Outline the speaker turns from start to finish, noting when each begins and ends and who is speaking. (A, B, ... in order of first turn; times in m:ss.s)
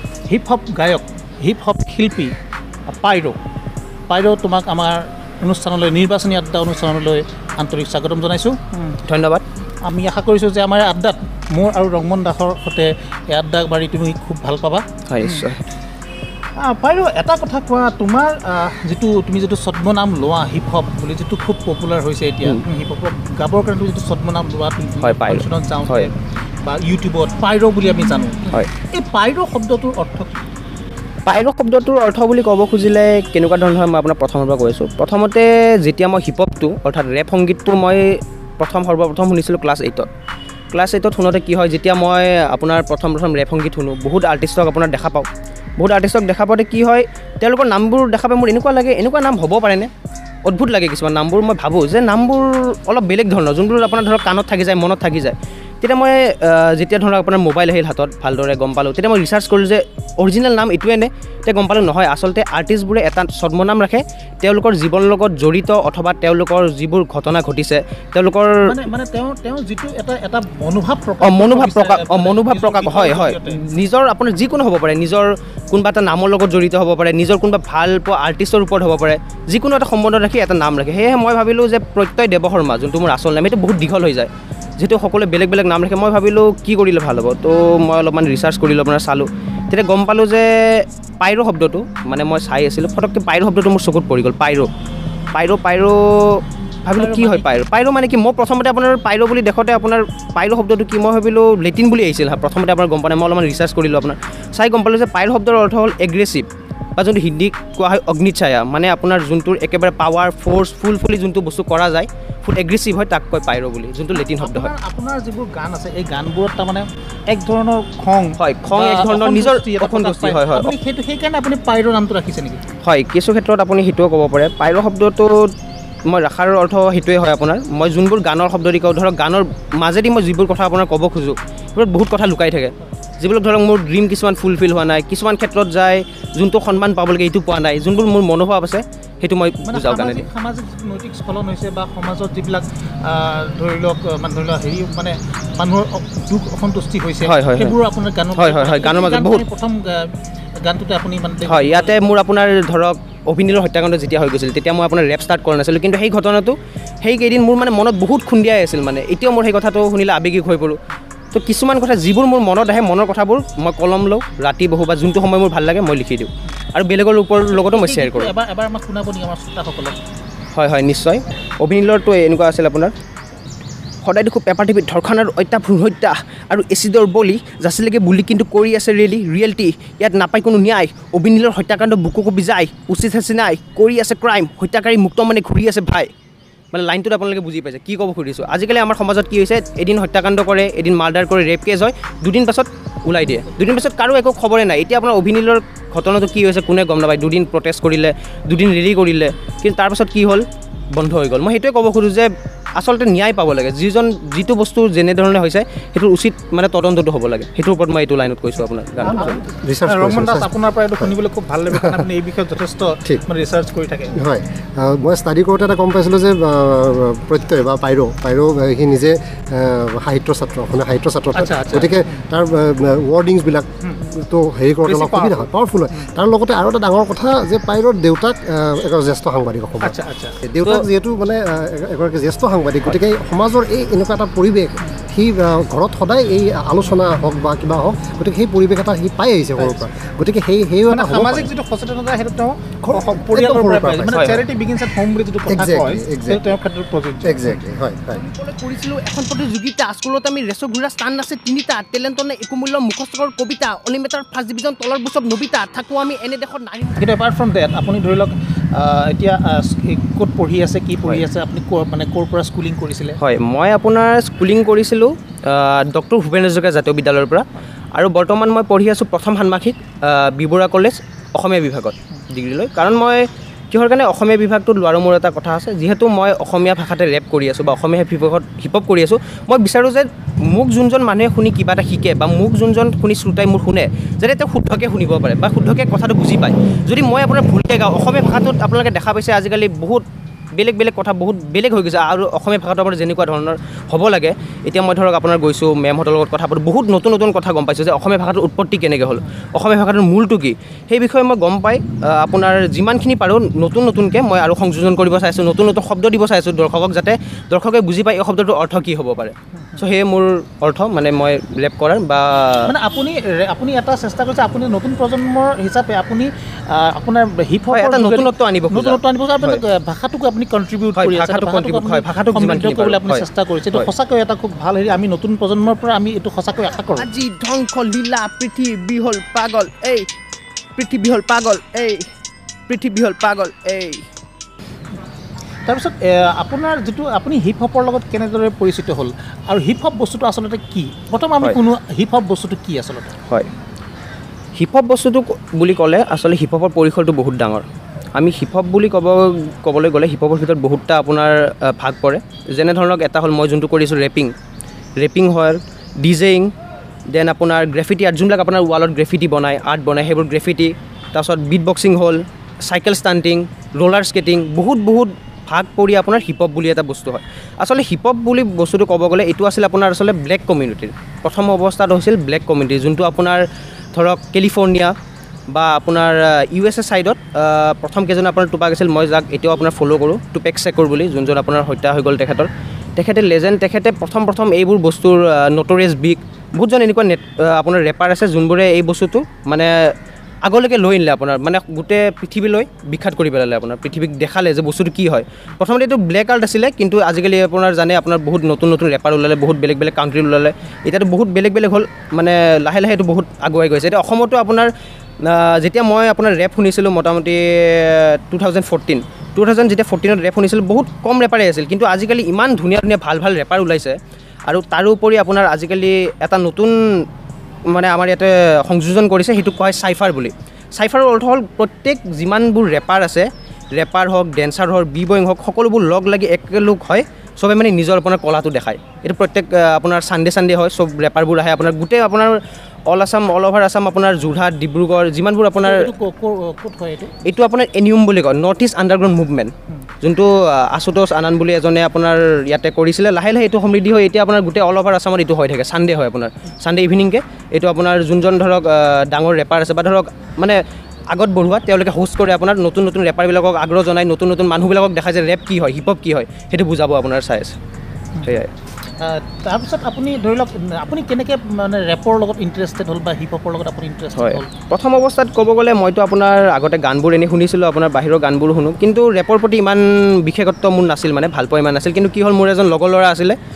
0:00.3-0:02.4 A
0:02.9-0:03.4 A
0:04.1-0:09.0 A
0:09.0-0:09.4 B
0:09.8-0:15.5 A
0:15.1-0:15.6 B
0:16.6-0:30.4 A
0:25.0-0:26.1 B
0:31.3-0:40.1 B
0:40.7-0:45.3 B
0:45.8-0:49.9 B
0:50.4-1:08.7 B
1:08.6-1:13.6 A
1:11.2-1:34.7 B
1:35.3-1:54.7 B
1:37.0-1:37.5 A
1:54.2-2:02.6 A
1:58.4-2:00.7 B
2:02.8-2:05.5 B
2:06.1-2:20.3 B
2:19.7-2:32.0 A
2:27.2-2:27.8 B
2:28.4-2:29.4 B
2:31.5-2:40.8 B
2:41.3-2:48.3 B
2:47.5-2:50.0 A
2:50.5-2:52.9 B
2:54.0-3:06.1 B
3:06.7-3:29.4 B
3:29.1-3:34.2 A
3:29.4-3:31.1 C
3:31.7-3:32.1 C
3:34.1-4:01.5 C
3:41.3-3:42.2 A
3:44.8-3:46.1 A
3:49.8-3:50.4 A
3:59.6-3:59.9 A
4:00.9-4:07.6 A
4:02.8-4:04.2 C
4:04.1-4:04.4 B
4:05.5-4:06.6 C
4:07.2-4:08.2 C
4:08.1-4:17.1 B
4:17.0-4:23.2 A
4:23.2-5:12.7 B
5:12.7-5:27.1 A
5:17.7-5:19.6 B
5:21.0-5:23.9 B
5:26.9-5:30.1 B
5:30.8-5:32.0 B
5:32.7-5:34.1 B
5:35.7-5:43.1 A
5:44.6-5:54.3 B
5:55.0-5:56.5 B
5:57.1-6:15.0 B
6:15.5-6:29.9 B
6:30.4-6:44.7 B
6:45.2-6:56.8 B
6:57.7-7:15.9 B
7:15.6-7:17.1 A
7:17.2-7:30.6 B
7:31.1-7:37.6 B
7:38.2-7:38.5 B
7:39.0-7:44.5 A
7:44.2-7:53.4 B